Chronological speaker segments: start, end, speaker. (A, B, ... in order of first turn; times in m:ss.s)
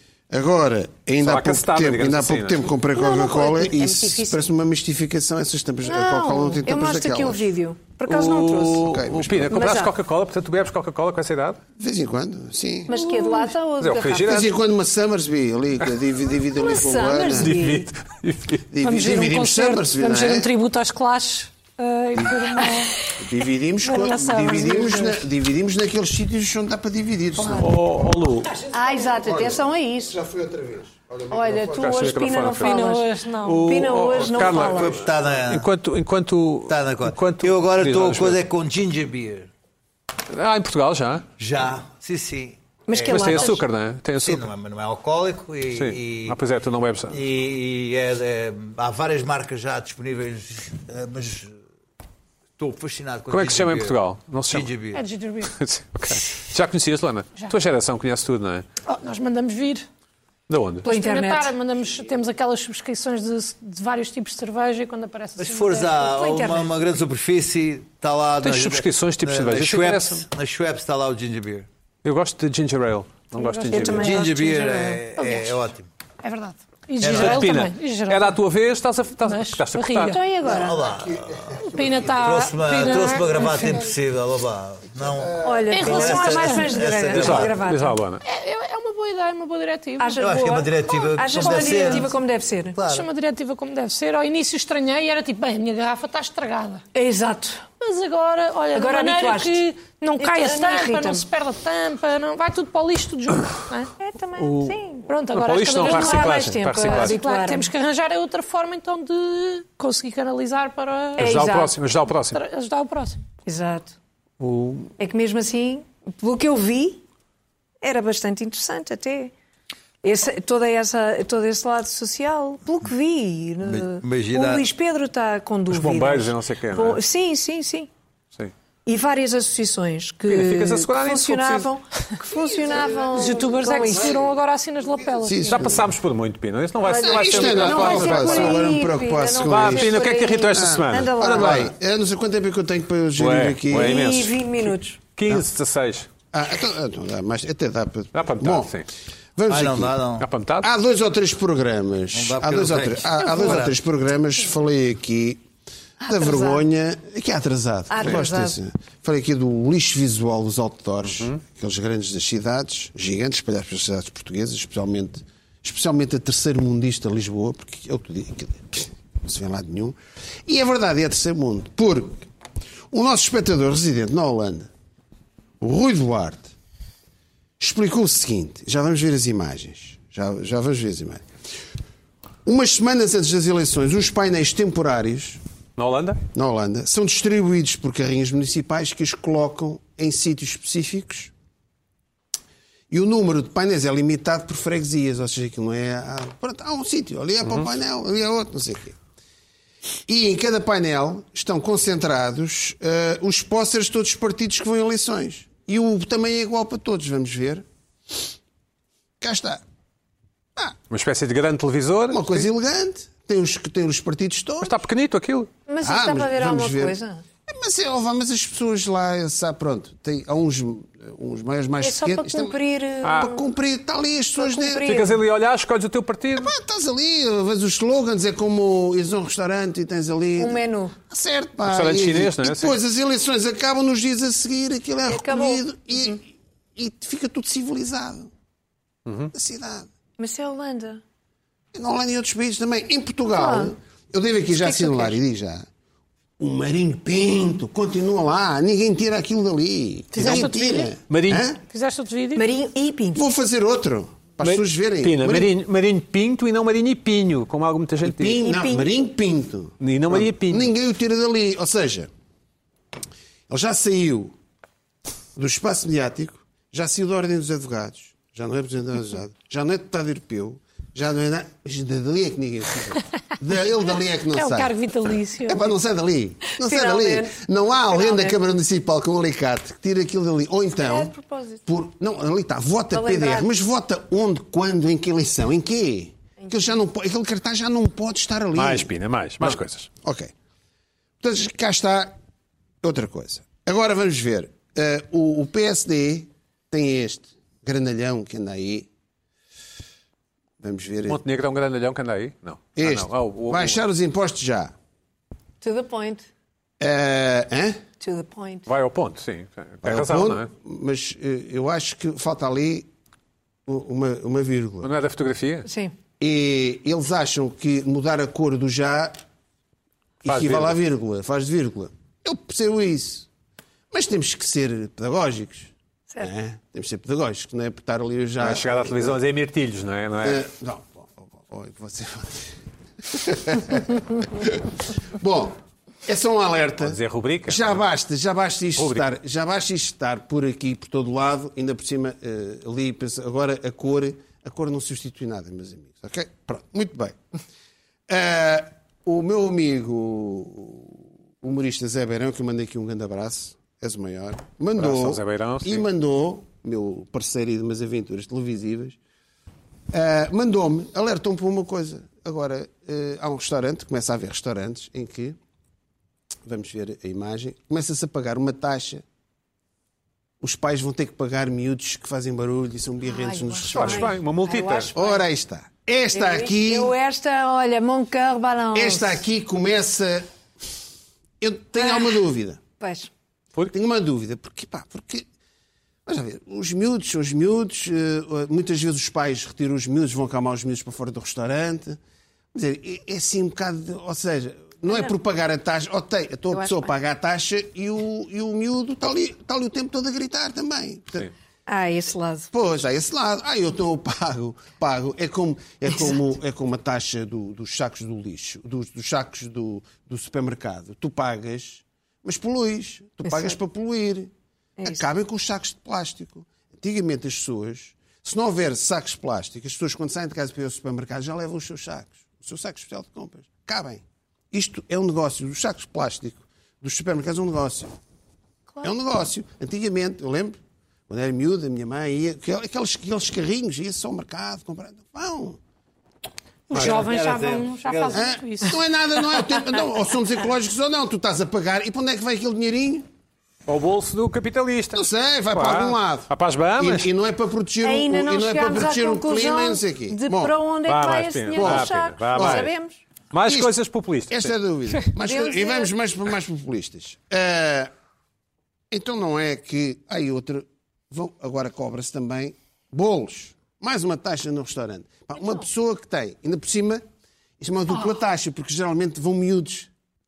0:00.3-0:07.4 A
0:01.2-0:02.7 B
0:02.9-0:04.5 C
0:05.8-0:09.9 C
0:08.1-0:11.6 B
0:08.7-0:09.5 A
0:11.8-0:12.9 A
0:12.9-0:14.5 C
0:12.9-0:13.5 D
0:13.8-0:14.5 B
0:14.2-0:17.5 A
0:16.4-0:17.9 C
0:17.4-0:18.6 B
0:18.7-0:20.5 A
0:18.8-0:23.1 D
0:22.6-0:22.8 C
0:23.2-0:27.7 A
0:23.8-0:25.2 D
0:27.5-0:28.5 B
0:28.7-0:30.2 C
0:29.1-0:32.2 A
0:31.3-0:35.0 C
0:31.8-0:32.8 B
0:32.6-0:33.8 D
0:33.4-0:38.4 B
0:34.4-0:35.7 E
0:36.7-0:39.5 E
0:40.3-0:41.2 B
0:41.4-0:43.6 E
0:42.9-0:43.6 C
0:43.1-0:44.5 B
0:44.2-0:46.4 E
0:45.7-0:47.2 B
0:47.1-0:51.6 E
0:52.6-0:54.0 E
0:53.3-0:54.7 B
0:54.5-0:55.0 E
0:54.9-0:55.5 D
0:55.5-0:58.6 B
0:58.9-0:59.8 D
1:00.5-1:00.9 B
1:00.8-1:01.5 C
1:00.8-1:06.1 D
1:05.4-1:11.7 E
1:06.0-1:06.7 C
1:08.4-1:10.2 B
1:12.0-1:14.2 B
1:13.4-1:14.1 D
1:13.7-1:15.0 C
1:13.8-1:15.9 E
1:15.2-1:15.6 D
1:16.2-1:18.4 D
1:17.0-1:17.5 E
1:17.1-1:20.2 B
1:19.2-1:20.2 D
1:20.0-1:20.8 C
1:20.4-1:27.6 E
1:21.1-1:21.6 A
1:21.6-1:23.9 D
1:25.4-1:28.0 C
1:25.7-1:26.9 D
1:27.1-1:28.2 B
1:28.2-1:30.4 D
1:30.0-1:32.8 C
1:30.2-1:32.1 E
1:31.0-1:32.1 D
1:32.8-1:33.1 E
1:32.8-1:36.8 D
1:36.9-1:37.7 C
1:37.8-1:43.9 D
1:38.7-1:39.6 C
1:40.2-1:41.2 C
1:44.0-1:45.1 C
1:44.4-1:44.8 B
1:45.1-1:51.4 D
1:45.3-1:47.2 B
1:45.8-1:47.7 C
1:51.2-1:52.4 B
1:51.2-1:51.7 C
1:52.3-1:53.2 D
1:53.4-1:54.0 C
1:54.4-1:54.9 B
1:55.0-1:57.0 C
1:57.8-1:59.3 C
2:00.0-2:07.9 C
2:03.6-2:04.7 E
2:05.7-2:07.0 B
2:08.8-2:14.2 C
2:10.3-2:11.7 B
2:12.6-2:13.3 A
2:13.1-2:15.8 D
2:15.2-2:15.8 A
2:15.5-2:18.6 B
2:16.8-2:21.7 C
2:17.0-2:24.1 A
2:19.4-2:21.7 B
2:23.2-2:26.1 B
2:23.7-2:25.0 C
2:26.3-2:28.8 A
2:28.1-2:28.9 B
2:29.4-2:30.0 A
2:29.5-2:30.2 E
2:30.2-2:30.7 B
2:30.6-2:35.4 A
2:32.1-2:33.8 E
2:36.0-2:36.6 C
2:36.0-2:52.2 A
2:37.9-2:38.6 C
2:41.0-2:41.4 B
2:52.9-2:54.7 A
2:55.6-2:56.5 A
2:57.6-3:01.2 A
3:02.4-3:05.4 A
3:05.8-3:06.2 B
3:06.3-3:11.3 A
3:12.9-3:19.0 A
3:20.1-3:27.6 A
3:29.2-3:29.6 A
3:30.9-3:32.4 B
3:32.1-3:34.7 A
3:34.6-3:35.5 B
3:35.7-3:37.2 C
3:35.8-3:45.1 A
3:41.8-3:43.4 C
3:43.0-3:43.3 B
3:44.4-3:45.2 C
3:44.8-3:46.5 B
3:46.4-3:58.3 A
3:50.4-3:51.0 C
3:51.6-3:52.8 B
3:55.1-3:56.2 C
3:59.0-3:59.3 B
3:59.3-3:59.9 A
4:00.2-4:01.0 C
4:01.7-4:05.7 A
4:03.3-4:03.7 C
4:04.5-4:05.2 C
4:06.4-4:11.6 A
4:10.1-4:10.9 D
4:11.1-4:11.5 B
4:11.7-4:12.4 D
4:12.3-4:13.2 C
4:13.1-4:15.5 A
4:14.4-4:18.4 B
4:18.0-4:22.1 A
4:18.4-4:18.9 C
4:19.8-4:20.7 B
4:23.5-4:24.3 A
4:25.4-4:34.8 A
4:34.3-4:35.7 D
4:35.4-4:41.1 A
4:36.6-4:37.3 C
4:37.9-4:38.4 C
4:40.8-4:41.6 C
4:41.6-4:50.3 A
4:42.9-4:43.5 C
4:46.4-4:46.7 C
4:48.5-4:49.9 B
4:51.2-4:52.1 A
4:52.8-4:58.9 A
5:00.6-5:01.2 A
5:01.1-5:03.8 B
5:02.8-5:04.7 A
5:05.6-5:06.2 C
5:06.8-5:07.8 A
5:08.0-5:08.7 C
5:08.7-5:10.5 B
5:09.8-5:12.9 A
5:13.6-5:14.9 A
5:14.8-5:15.7 B
5:15.7-5:15.9 C
5:16.2-5:19.2 A
5:20.2-5:23.3 A
5:20.2-5:20.8 B
5:23.9-5:29.2 A
5:28.4-5:30.4 B
5:30.2-5:32.5 A
5:33.0-5:47.2 A
5:36.8-5:37.8 B
5:38.8-5:39.1 B
5:48.1-5:59.0 A
5:54.8-5:55.8 B
5:59.9-6:05.4 A
6:06.4-6:09.0 A
6:10.4-6:14.2 A
6:13.0-6:15.2 C
6:13.7-6:14.9 B
6:14.9-6:16.9 A
6:16.1-6:19.2 C
6:18.7-6:20.3 A
6:21.4-6:22.6 A
6:21.8-6:22.2 C
6:22.8-6:23.1 C
6:23.7-6:25.3 A
6:26.0-6:32.0 A
6:32.5-6:41.3 A
6:34.9-6:35.1 C
6:36.5-6:36.9 C
6:41.7-6:42.5 C
6:42.5-6:54.3 A
6:53.2-6:53.6 C
6:54.8-6:55.0 C
6:54.8-7:07.9 A
7:08.8-7:10.6 A
7:11.1-7:15.6 A
7:16.7-7:18.8 D
7:16.7-7:18.3 E
7:16.7-7:17.0 B
7:18.1-7:23.1 A
7:23.7-7:27.1 B
7:24.9-7:30.5 A
7:27.8-7:33.0 C
7:30.9-7:32.7 B
7:31.5-7:32.7 A
7:33.3-7:34.6 B
7:33.4-7:33.7 A
7:34.3-7:37.9 A
7:35.2-7:35.9 C
7:38.9-7:47.0 A
7:47.6-7:49.9 A